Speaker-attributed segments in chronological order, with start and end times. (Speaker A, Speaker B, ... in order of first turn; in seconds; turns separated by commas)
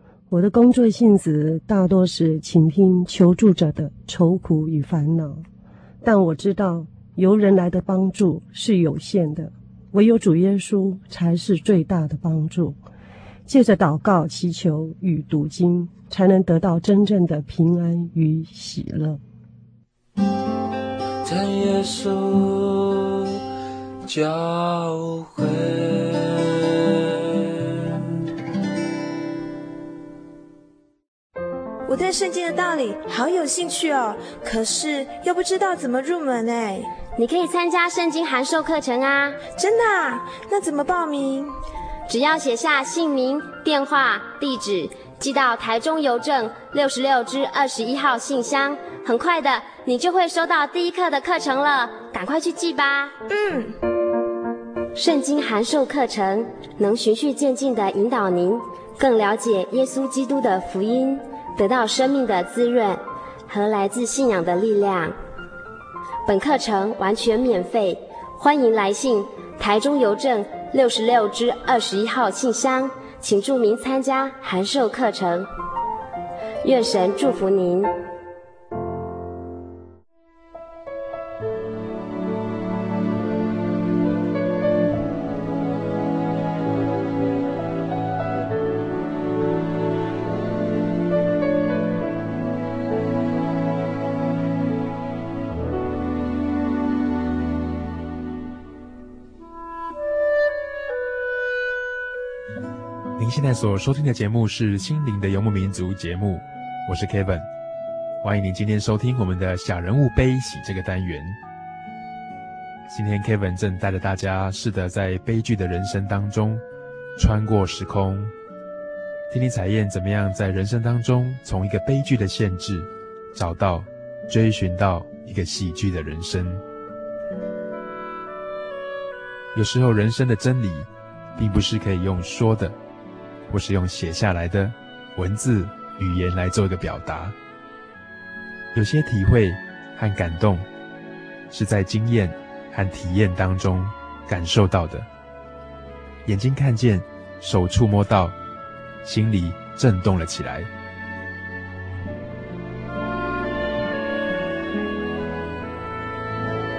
Speaker A: 0.3-5.4, Speaker A: 6.0-12.8, Speaker A: 13.5-19.2, Speaker B: 21.2-23.4, Speaker B: 24.0-27.8, Speaker C: 31.9-36.9, Speaker D: 37.2-39.4, Speaker C: 39.5-41.6, Speaker D: 42.1-53.2, Speaker C: 53.3-53.8, Speaker D: 55.0-65.1, Speaker D: 66.2-75.5, Speaker D: 76.6-77.9, Speaker E: 103.2-107.5, Speaker E: 108.2-111.4, Speaker E: 112.9-116.6, Speaker E: 117.2-118.3, Speaker E: 119.3-126.6, Speaker E: 129.5-132.8, Speaker E: 133.5-137.3, Speaker E: 138.7-140.7, Speaker E: 141.5-145.1, Speaker E: 146.2-148.3, Speaker E: 149.0-150.7